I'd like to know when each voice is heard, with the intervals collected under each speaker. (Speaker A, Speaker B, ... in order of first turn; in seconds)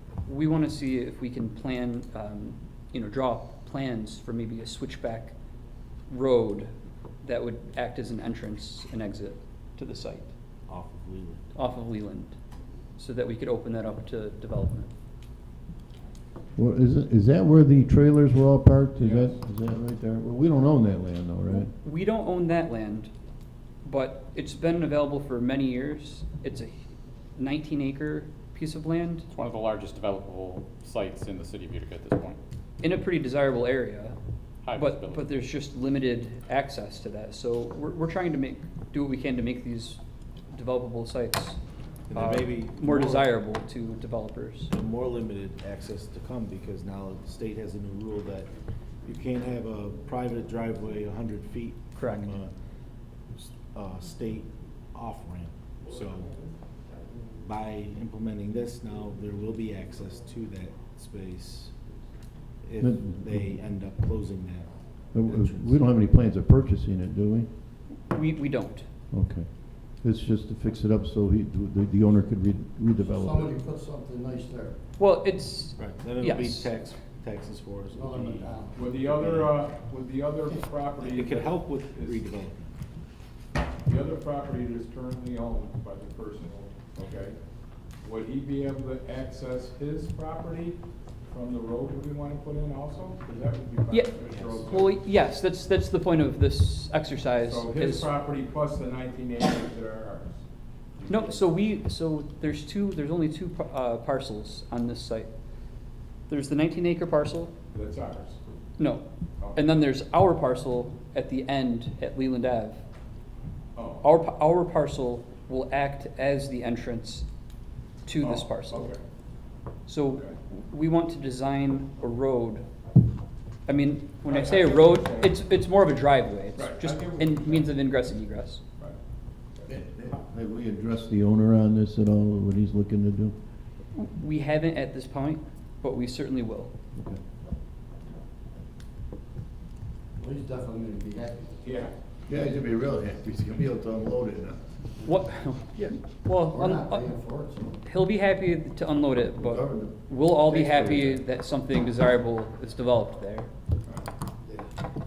Speaker A: 0.3-5.3, 6.1-6.7, 7.2-10.3, 11.6-12.4, 13.0-14.9, 21.5-23.1, 23.9-26.8, 27.4-29.3, 32.8-34.2, 34.8-41.6, 42.1-44.7, 52.0-52.3, 68.1-68.9, 75.0-76.7, 93.9-98.1, 101.1-105.3, 106.3-107.5, 108.8-112.8, 114.0-117.3, 118.1-118.9, 119.9-122.7, 123.7-128.6, 133.9-136.7, 145.1-147.1, 147.8-153.5
Speaker B: 10.7-11.5, 42.1-43.3, 44.7-48.5, 49.0-52.5, 53.3-56.4, 57.4-61.8, 62.6-65.8, 75.8-78.7, 81.0-82.7, 94.3-94.7
Speaker C: 16.6-21.7, 62.8-63.6, 65.1-67.5, 69.1-73.5, 129.7-133.3, 136.9-137.2, 142.3-144.7, 149.4-151.2
Speaker D: 19.0-19.3, 78.7-82.3, 83.8-87.4, 88.0-95.0, 97.4-100.4, 101.0-101.5, 107.7-108.4, 109.4-109.8, 113.8-114.1, 118.2-119.0, 124.2-125.4, 126.5-127.8, 141.6-141.9
Speaker E: 29.3-32.4, 34.6-35.2
Speaker F: 73.0-74.8, 77.9-79.5, 140.2-141.7, 146.5-147.8